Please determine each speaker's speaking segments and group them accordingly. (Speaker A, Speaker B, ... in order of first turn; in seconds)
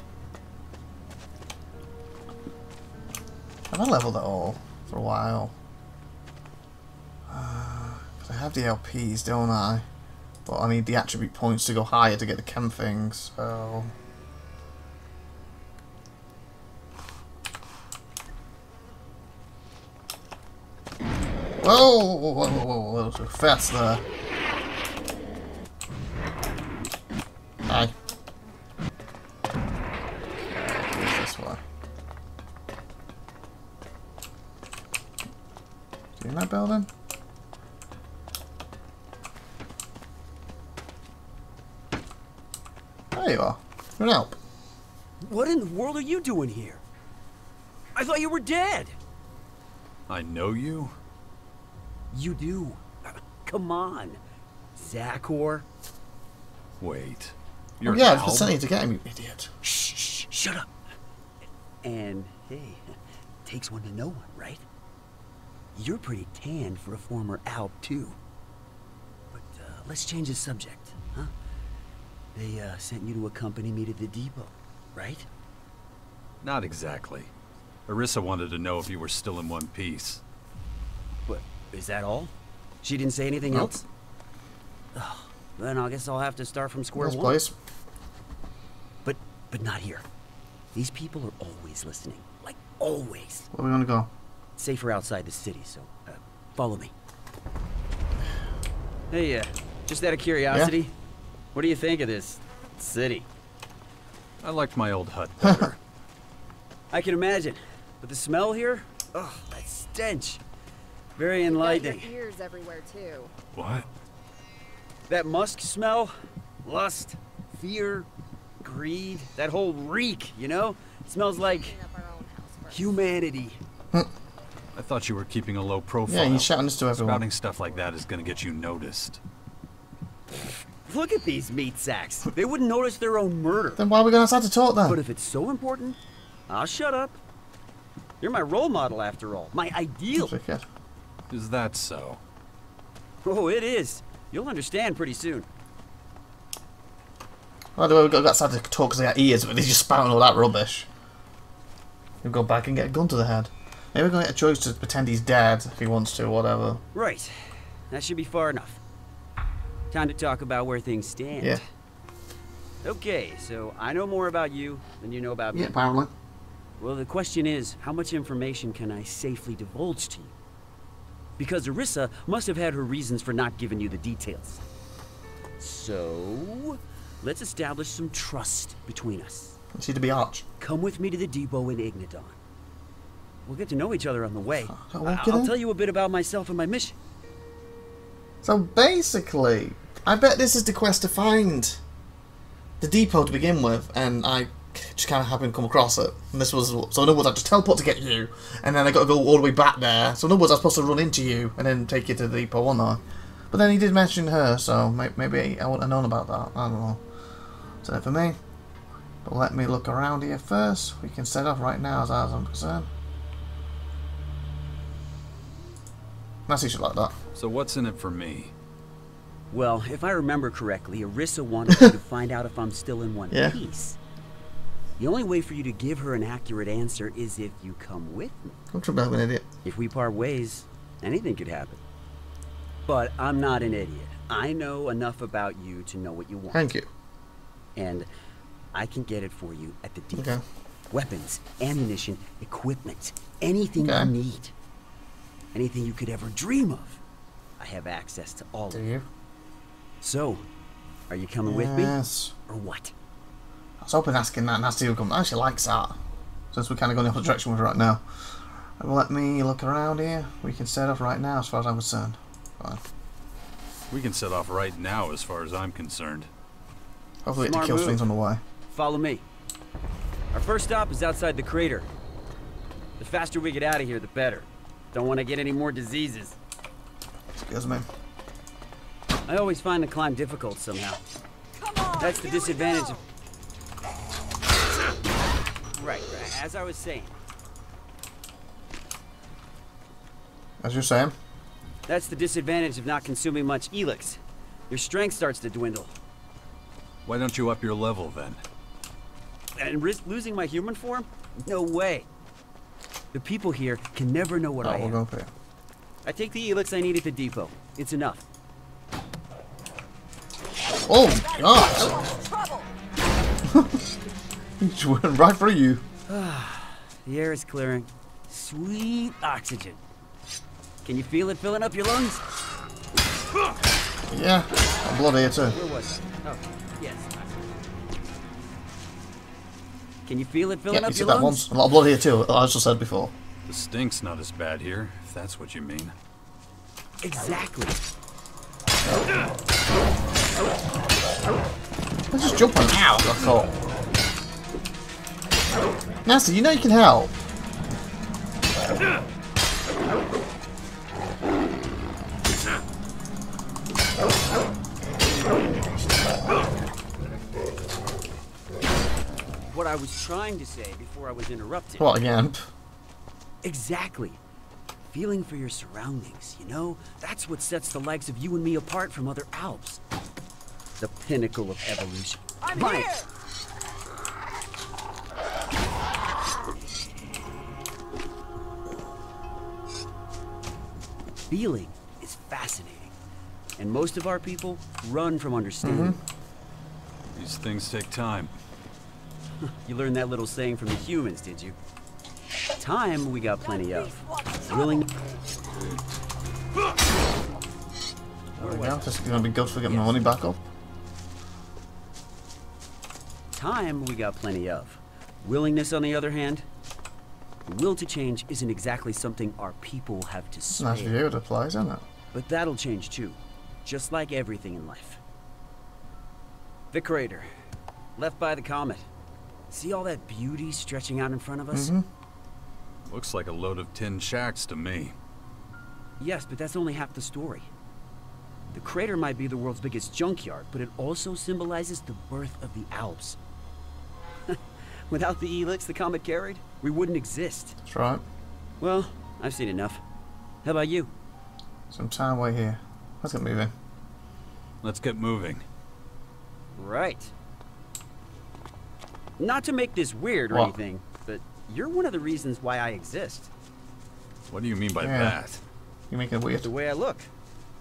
Speaker A: 3.7-5.5, 7.3-9.8, 10.5-13.9, 21.6-24.0, 27.7-27.9, 30.5-31.6, 36.2-36.9, 43.1-44.4, 57.8-59.5, 83.5-83.8, 87.0-87.5, 93.5-94.1, 126.1-127.2, 133.8-135.0, 140.1-140.6, 147.8-150.9, 152.2-156.8, 165.5-166.1, 179.7-180.4, 184.7-185.5, 188.4-191.8, 192.8-207.0, 207.8-208.4, 209.2-212.9, 216.5-217.1, 223.3-223.6, 228.7-229.5, 236.5-236.9, 240.1-240.4, 243.8-244.1, 248.7-249.1, 251.4-252.3, 253.8-256.0, 256.5-258.0, 258.8-262.8, 267.2-268.4, 277.3-277.9, 290.6-291.1, 304.6-305.3, 310.9-312.0, 313.4-313.8, 314.6-315.8, 324.1-325.6, 330.7-333.1, 342.1-343.5, 346.1-347.1, 361.8-362.5, 385.6-386.0, 398.4-400.4, 410.6-411.9, 421.5-421.9, 437.6-438.0, 441.7-443.5, 454.8-455.2, 455.9-456.5
Speaker B: 45.2-46.8, 48.0-49.0, 52.1-52.8, 53.4-54.2, 54.8-55.7, 59.6-60.7, 61.8-62.9, 63.5-64.6, 65.8-68.2, 69.3-71.3, 72.3-75.3, 81.3-82.3, 82.8-83.8, 85.0-87.4, 89.0-90.0, 90.7-93.5, 94.6-96.9, 99.1-101.0, 101.5-103.3, 106.9-110.4, 111.2-112.2, 115.1-116.1, 116.6-118.1, 118.6-121.8, 122.7-123.6, 130.8-133.8, 134.9-136.0, 136.5-137.2, 138.2-140.3, 143.2-145.5, 156.9-157.3, 157.9-158.8, 159.9-161.6, 162.8-165.7, 166.8-170.3, 171.4-174.6, 175.6-179.6, 180.6-182.4, 183.4-186.9, 219.5-224.0, 225.0-228.6, 229.6-231.8, 232.8-236.6, 237.8-238.1, 238.7-240.4, 240.9-244.5, 245.5-247.0, 247.6-248.9, 250.0-250.4, 251.1-252.9, 267.4-268.0, 268.7-269.2, 270.3-271.9, 273.0-276.4, 279.3-281.0, 282.0-283.0, 285.7-287.1, 291.9-295.9, 299.6-302.1, 303.1-305.0, 306.1-308.2, 316.1-319.8, 320.8-322.2, 325.5-327.5, 330.1-331.5, 337.0-337.8, 359.5-361.9, 363.4-364.2, 364.9-369.8, 370.8-372.9, 381.3-382.9, 383.6-386.0, 389.6-391.6, 392.6-394.9, 398.4-400.1, 403.3-406.5, 407.5-411.0, 412.1-415.0, 416.7-417.3, 418.0-418.9, 419.5-421.7, 426.0-427.5, 428.5-433.2, 434.3-437.6, 438.6-439.8, 440.4-440.9, 446.6-447.1, 449.2-453.3, 456.4-457.1
Speaker C: 50.1-51.0, 56.8-58.6, 76.4-77.3, 77.9-80.2, 104.4-105.8, 113.5-113.9, 124.7-129.2, 141.3-142.2, 217.3-218.5, 263.9-266.3, 297.1-298.4, 333.5-335.9, 387.1-388.3, 422.9-424.9, 444.6-445.4, 454.3-455.4
Speaker D: 111.4-113.3, 121.4-122.9
Speaker E: 281.6-283.1, 311.2-312.7, 372.4-373.1, 394.1-394.4